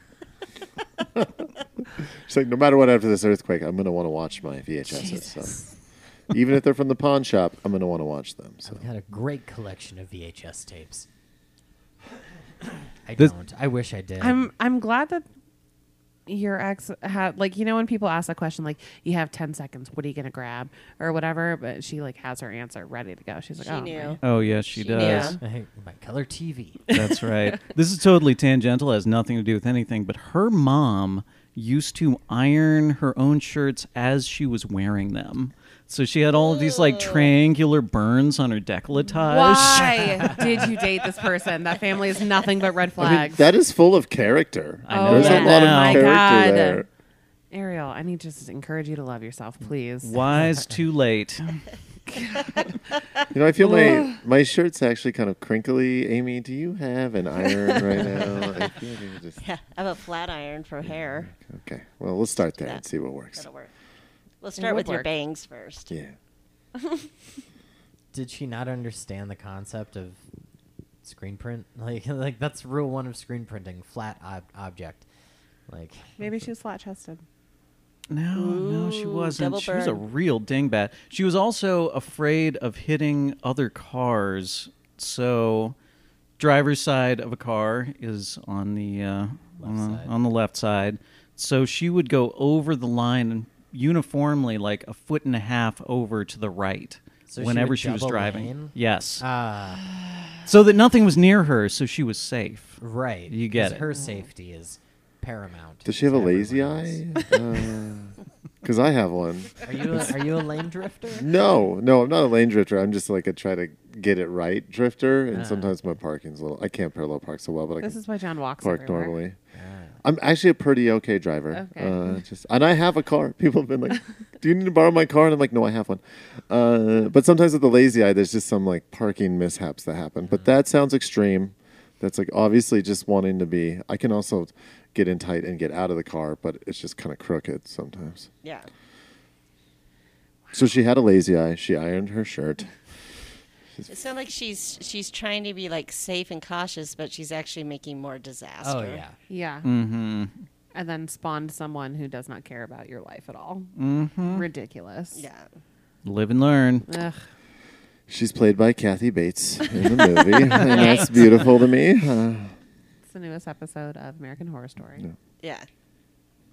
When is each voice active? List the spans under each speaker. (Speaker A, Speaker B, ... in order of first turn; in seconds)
Speaker A: 1.1-5.6, 6.3-8.8, 43.0-46.9, 53.3-59.4, 60.9-63.5, 65.9-66.1, 105.8-110.1, 111.2-118.0, 118.6-119.4, 120.0-138.3, 140.5-142.7, 158.1-162.5
Speaker B: 4.9-5.7, 14.2-15.2, 16.3-24.2, 24.9-25.4, 39.2-43.5, 44.9-46.8, 47.5-50.2, 52.1-52.8, 53.6-54.2, 64.6-65.1, 76.2-77.2, 117.8-119.1, 121.5-122.1, 149.3-149.7, 150.7-155.2, 156.9-157.2, 159.8-161.4, 163.1-165.0
Speaker C: 8.6-11.1, 13.1-14.5, 25.4-26.9, 68.1-70.2, 71.0-75.0, 75.7-76.5, 89.6-90.1, 97.3-99.8, 102.8-107.0, 109.6-111.3, 115.3-115.8, 119.5-120.0, 148.6-149.2
Speaker D: 23.6-25.4, 36.4-37.3, 45.1-45.6, 59.4-61.3, 62.6-62.8, 63.4-63.7, 64.4-65.9, 78.3-80.0, 138.4-138.7, 143.9-149.0, 155.1-155.5, 160.6-161.3, 165.4-165.7
Speaker E: 24.2-25.4, 26.9-40.6, 44.9-46.2, 50.0-51.6, 78.1-85.7, 86.4-99.2, 100.5-103.8, 149.6-150.3, 153.8-154.4, 156.0-156.9